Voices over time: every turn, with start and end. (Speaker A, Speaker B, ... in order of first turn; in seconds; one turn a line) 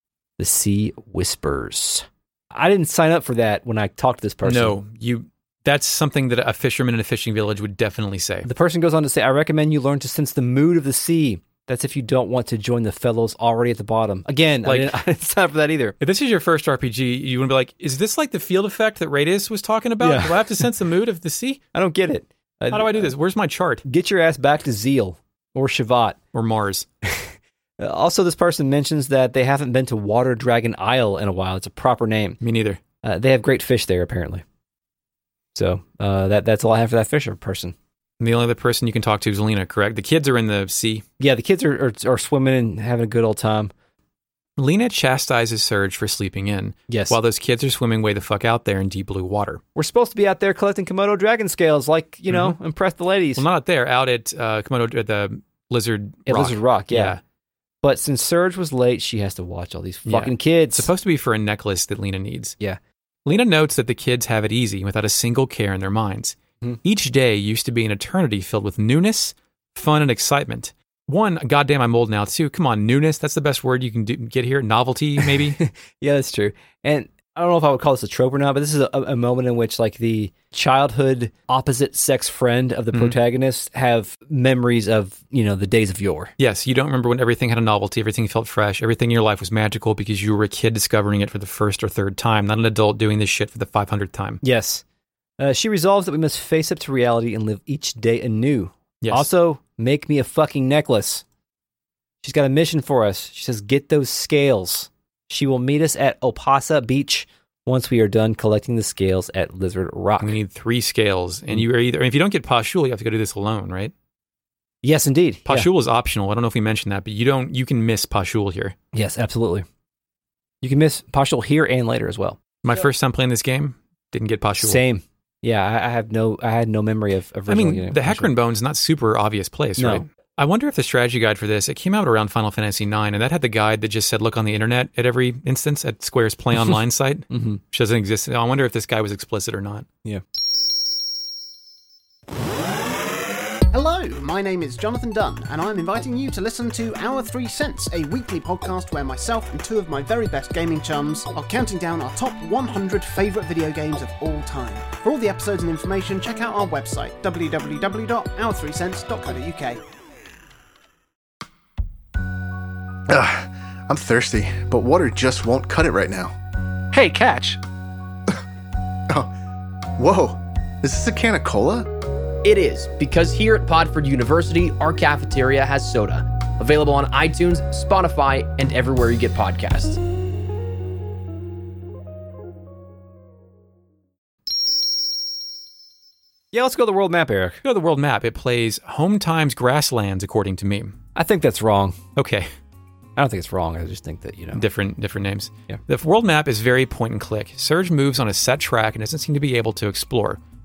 Speaker A: 0.4-4.8
Speaker B: 4.4-8.5
Speaker A: 8.4-15.9
Speaker B: 14.7-15.0
Speaker B: 16.0-21.6
Speaker A: 20.0-20.7
Speaker A: 21.7-23.1
Speaker B: 22.7-23.8
Speaker A: 23.9-26.2
Speaker B: 26.3-26.9
Speaker A: 27.0-32.4
Speaker B: 32.4-32.8
Speaker A: 33.0-34.4
Speaker A: 35.5-37.8
Speaker B: 38.2-41.0
Speaker A: 41.2-43.7
Speaker B: 44.6-49.6
Speaker A: 46.9-47.2
Speaker A: 49.8-53.5
Speaker B: 52.3-52.6
Speaker B: 53.4-57.2
Speaker A: 56.3-57.2
Speaker A: 57.8-60.9
Speaker B: 60.1-62.6
Speaker B: 63.2-75.6
Speaker A: 75.6-86.3
Speaker B: 86.4-94.4
Speaker A: 94.4-94.8
Speaker A: 95.4-101.2
Speaker B: 99.0-99.3
Speaker A: 102.2-110.4
Speaker B: 110.2-113.9
Speaker A: 114.8-115.7
Speaker B: 115.5-118.8
Speaker A: 118.9-119.7
Speaker A: 120.6-122.4
Speaker B: 122.6-124.8
Speaker A: 124.6-128.3
Speaker B: 127.5-139.9
Speaker A: 129.8-130.0
Speaker A: 137.3-137.6
Speaker C: 143.7-159.8
Speaker D: 163.1-166.3
Speaker D: 166.9-167.6
Speaker D: 170.0-171.9
Speaker E: 172.4-180.0
Speaker A: 186.5-187.6
Speaker B: 187.6-190.9
Speaker A: 191.2-192.0
Speaker B: 192.2-192.5
Speaker A: 193.2-194.6
Speaker B: 194.5-200.4